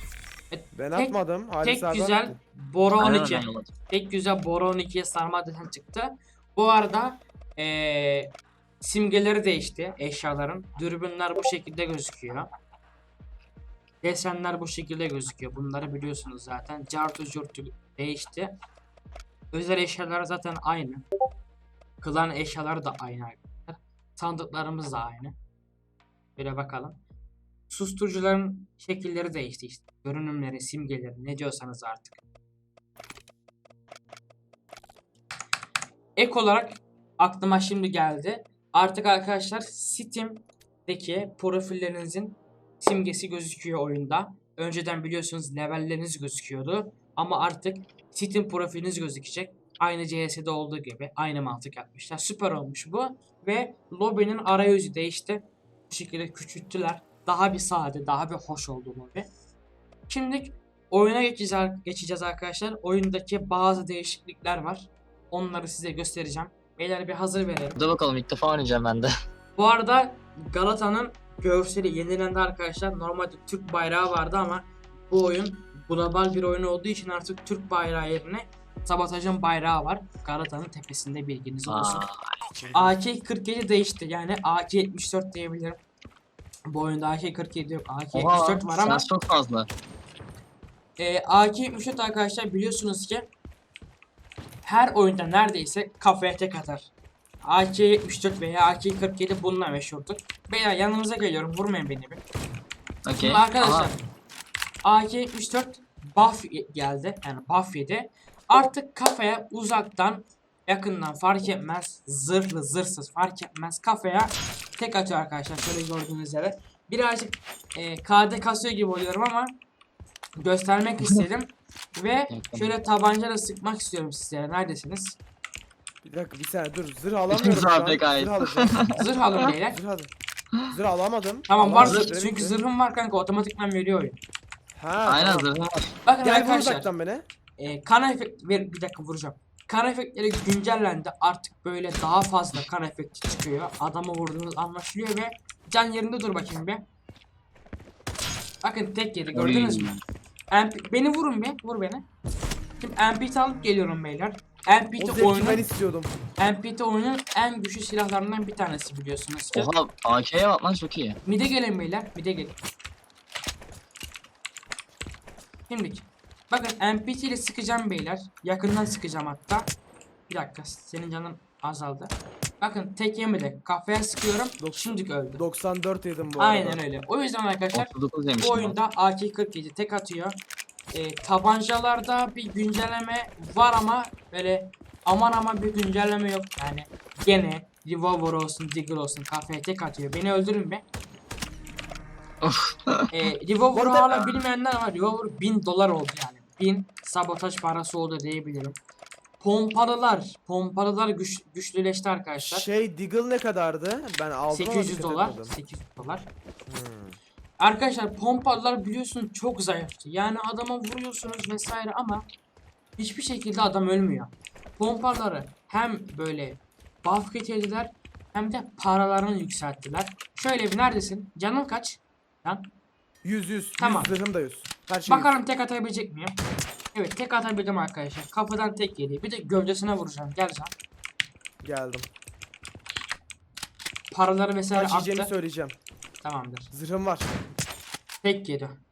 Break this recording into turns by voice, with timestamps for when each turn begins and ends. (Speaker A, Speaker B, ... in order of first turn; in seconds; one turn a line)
Speaker A: 0.5-12.5
Speaker B: 0.8-2.4
Speaker C: 3.0-3.7
Speaker A: 14.0-18.5
Speaker A: 19.5-21.1
Speaker A: 22.0-25.3
Speaker A: 26.4-27.0
Speaker A: 27.7-32.2
Speaker A: 36.2-59.3
Speaker A: 60.1-67.8
Speaker C: 67.8-69.1
Speaker A: 69.6-82.0
Speaker C: 81.7-82.8
Speaker A: 82.7-85.8
Speaker A: 86.7-89.1
Speaker C: 88.1-89.7
Speaker A: 91.0-93.3
Speaker A: 94.6-96.9
Speaker A: 97.4-102.2
Speaker C: 103.0-103.9
Speaker A: 103.2-104.0
Speaker A: 104.8-119.5
Speaker A: 120.4-125.2
Speaker C: 122.3-122.7
Speaker B: 126.0-129.0
Speaker C: 127.3-129.0
Speaker A: 128.9-129.8
Speaker B: 129.6-130.1
Speaker B: 130.7-132.6
Speaker A: 131.5-134.2
Speaker C: 131.8-132.1
Speaker B: 134.7-135.5
Speaker C: 135.1-135.9
Speaker A: 136.0-136.9
Speaker B: 136.2-137.2
Speaker A: 137.6-146.8
Speaker A: 148.6-149.9
Speaker C: 149.3-150.0
Speaker A: 150.5-152.0
Speaker A: 152.8-155.6
Speaker B: 155.0-156.1
Speaker A: 156.4-159.7
Speaker C: 159.5-161.2
Speaker A: 161.2-162.6
Speaker A: 165.7-169.7
Speaker A: 170.3-175.4
Speaker B: 174.6-176.8
Speaker A: 176.4-180.4
Speaker C: 177.7-178.8
Speaker A: 180.9-190.8
Speaker C: 192.4-193.1
Speaker A: 193.1-198.8
Speaker B: 193.7-194.4
Speaker A: 199.4-202.7
Speaker B: 202.4-205.5
Speaker A: 204.5-206.3
Speaker B: 206.7-207.2
Speaker A: 207.6-212.2
Speaker A: 213.0-222.6
Speaker B: 223.2-225.3
Speaker A: 223.8-224.1
Speaker A: 225.1-226.4
Speaker A: 226.9-230.7
Speaker B: 231.6-232.1
Speaker A: 234.1-235.3
Speaker B: 234.7-235.8
Speaker A: 236.2-236.7
Speaker B: 236.7-237.3
Speaker A: 238.2-238.8